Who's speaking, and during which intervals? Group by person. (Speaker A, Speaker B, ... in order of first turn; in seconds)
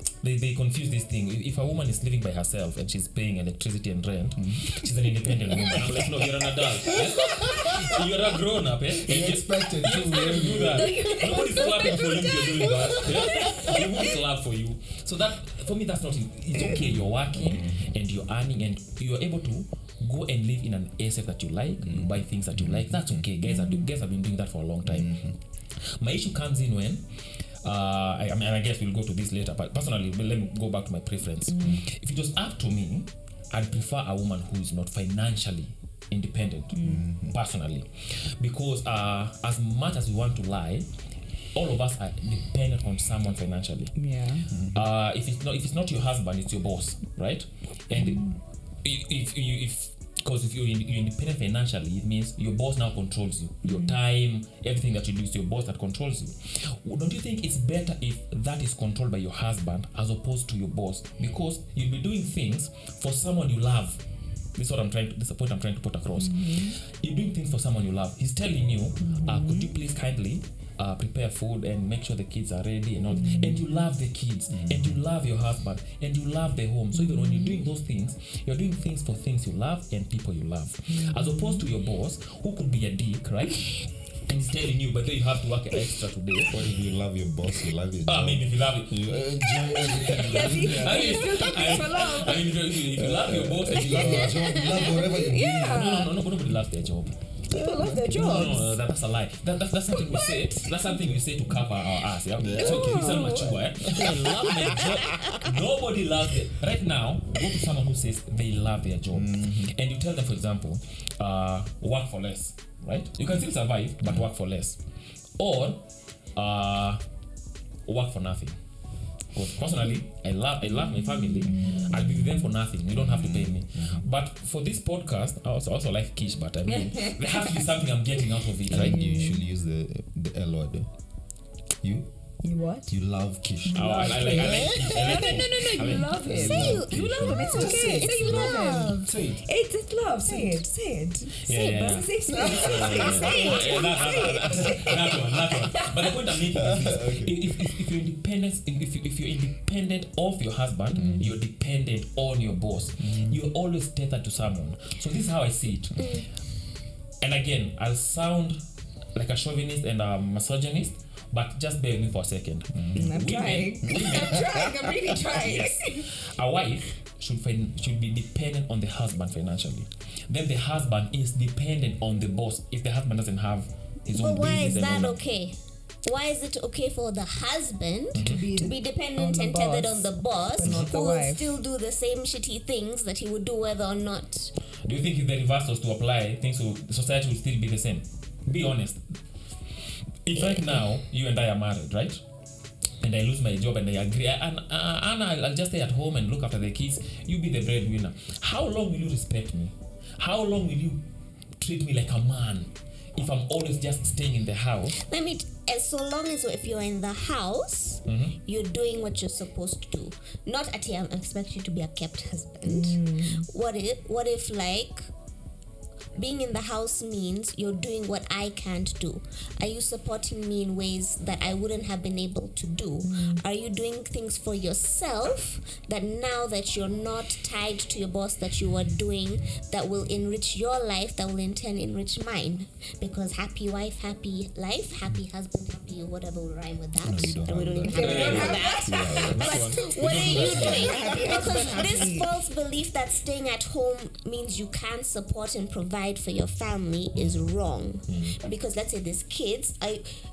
Speaker A: 0.2-25.2, 26.0-27.0, 27.6-40.9, 41.5-44.0, 44.6-48.3, 48.8-64.0, 64.5-86.7, 88.0-94.6, 95.6-97.2, 98.0-114.8, 115.4-115.8, 116.3-117.0, 117.9-118.6, 119.3-129.1, 133.8-137.5, 141.4-156.3, 157.2-158.6, 159.2-164.5, 165.3-175.2, 178.1-178.4, 180.6-180.9, 184.8-189.2, 190.2-192.2, 193.0-201.0, 201.6-205.0, 208.1-208.4, 237.9-241.0, 248.1-248.4
Speaker B: 4.4-4.9, 5.4-6.1, 6.8-7.8, 9.0-13.8, 16.8-17.9, 21.8-23.3, 24.8-25.4, 36.8-37.4, 44.5-44.8, 74.5-75.0, 86.5-91.5, 92.9-96.0, 97.5-98.6, 102.4-105.0, 109.1-109.7, 121.5-121.8, 122.9-124.1, 128.7-130.9, 131.8-132.1, 132.9-135.4, 135.9-139.4, 142.3-143.5, 146.5-147.7, 150.9-151.3, 153.0-153.4, 162.7-163.1, 163.9-164.7, 237.0-241.8
Speaker C: 10.7-14.0, 16.6-16.9, 23.5-23.8, 31.5-31.8, 36.7-37.0, 44.0-44.5, 47.9-48.3, 53.6-54.0, 66.2-66.8, 69.0-69.7, 73.1-73.7, 77.0-77.6, 80.9-81.7, 90.0-92.5, 94.5-96.1, 97.5-98.8, 100.1-100.3, 102.6-103.6, 126.7-127.6, 128.8-129.4, 132.4-132.9, 133.6-146.2, 162.9-166.1, 178.2-181.4, 212.6-213.5, 223.0-223.4, 237.8-239.5, 240.5-242.3
Speaker D: 94.3-95.0, 136.5-139.1, 140.3-140.6, 143.3-143.6, 156.0-156.2, 174.1-184.5, 190.4-190.8, 205.0-215.1, 216.2-250.1